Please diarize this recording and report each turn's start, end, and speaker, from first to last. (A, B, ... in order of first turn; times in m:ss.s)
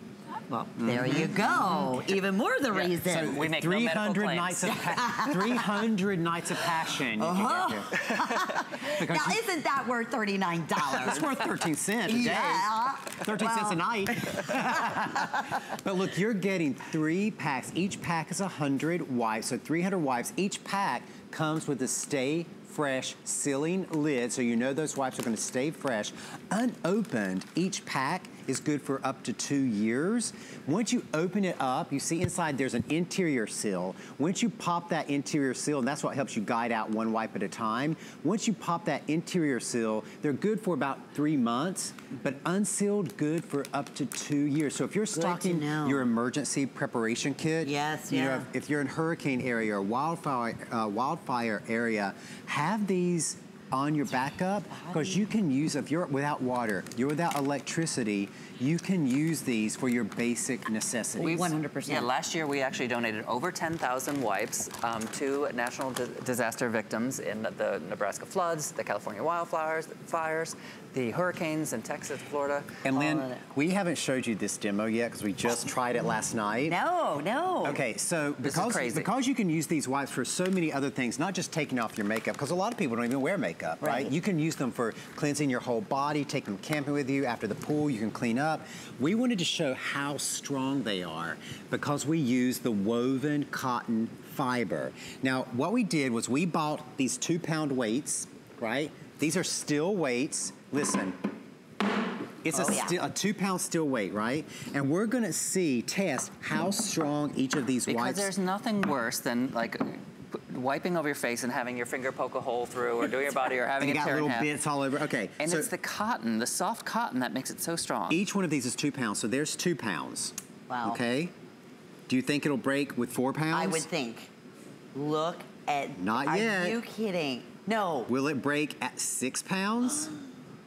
0:00.5-0:03.4 A
0:00.8-0:01.9 B
0:02.7-0:04.8 C
0:03.0-0:09.4 B
0:04.7-0:05.7 A
0:07.2-0:11.4 A
0:10.9-1:01.5 B
0:12.0-0:15.5 A
0:45.1-0:46.0 A
0:47.6-0:48.5 A
0:54.7-0:55.2 A
1:01.2-1:02.1 A
1:01.2-1:12.7 C
1:12.8-1:16.8 B
1:12.9-1:13.4 A
1:16.6-1:17.8 A
1:17.6-1:41.2 B
1:18.4-1:19.1 C
1:23.8-1:24.1 A
1:42.4-1:48.3 B
1:42.5-1:43.0 A
1:47.8-1:54.5 C
1:53.8-1:55.7 B
1:55.4-1:58.2 C
1:58.1-2:01.3 B
2:00.7-2:01.0 A
2:02.1-2:03.8 B
2:03.5-2:04.3 A
2:04.9-2:08.1 A
2:06.0-2:06.8 B
2:08.1-2:10.1 B